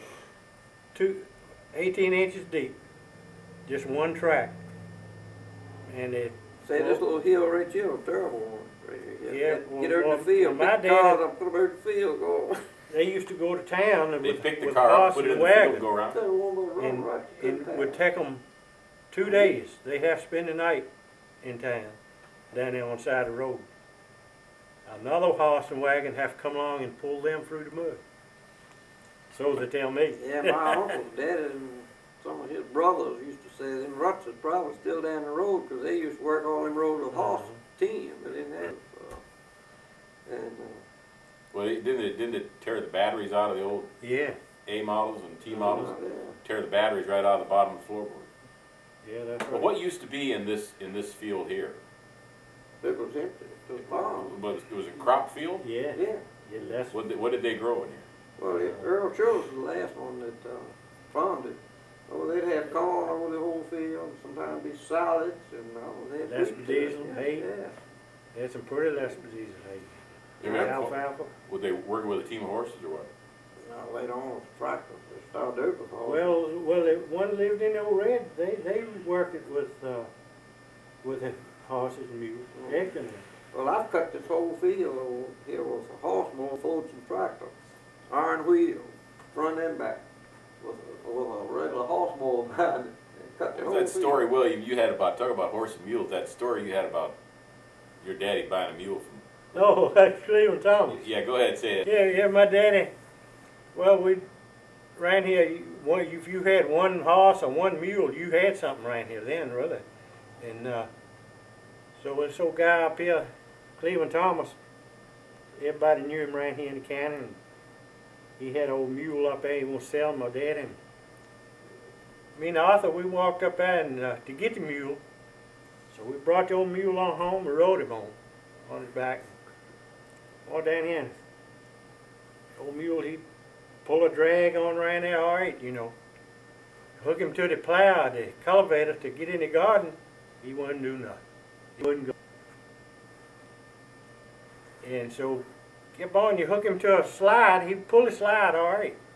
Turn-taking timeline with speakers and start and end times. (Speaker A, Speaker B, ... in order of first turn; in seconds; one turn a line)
Speaker A: 0.9-2.8
Speaker A: 3.7-4.6
Speaker A: 5.8-7.0
Speaker B: 6.6-12.6
Speaker A: 9.3-11.2
Speaker A: 12.9-15.8
Speaker C: 14.2-16.2
Speaker B: 16.1-18.0
Speaker A: 16.8-18.4
Speaker A: 19.1-20.9
Speaker B: 19.2-19.5
Speaker A: 21.4-22.0
Speaker A: 22.5-23.7
Speaker A: 24.9-28.0
Speaker A: 29.3-31.0
Speaker B: 30.2-39.2
Speaker A: 37.1-37.6
Speaker B: 40.2-40.8
Speaker C: 41.5-43.9
Speaker A: 44.0-44.4
Speaker C: 44.6-48.3
Speaker B: 45.5-46.4
Speaker A: 49.0-49.7
Speaker C: 49.5-51.8
Speaker B: 52.8-54.4
Speaker C: 53.8-55.6
Speaker A: 55.6-57.0
Speaker B: 55.9-56.2
Speaker C: 56.9-58.1
Speaker B: 58.4-67.8
Speaker A: 58.5-58.9
Speaker A: 66.2-67.4
Speaker A: 68.3-71.3
Speaker B: 70.4-70.8
Speaker C: 70.4-73.1
Speaker B: 73.6-76.2
Speaker A: 76.0-80.1
Speaker A: 81.0-83.2
Speaker B: 83.5-87.5
Speaker B: 88.1-90.0
Speaker B: 90.6-94.2
Speaker C: 93.5-97.2
Speaker C: 98.0-99.2
Speaker A: 99.5-101.0
Speaker C: 100.9-101.9
Speaker A: 101.8-102.9
Speaker A: 103.7-104.2
Speaker A: 105.0-109.8
Speaker A: 110.4-110.9
Speaker A: 111.9-114.6
Speaker A: 115.6-117.4
Speaker A: 118.4-120.8
Speaker A: 122.3-125.0
Speaker A: 125.9-129.3
Speaker A: 130.4-131.1
Speaker A: 132.6-133.2
Speaker A: 133.8-135.9
Speaker A: 137.0-141.2
Speaker A: 141.8-142.1
Speaker A: 144.8-149.0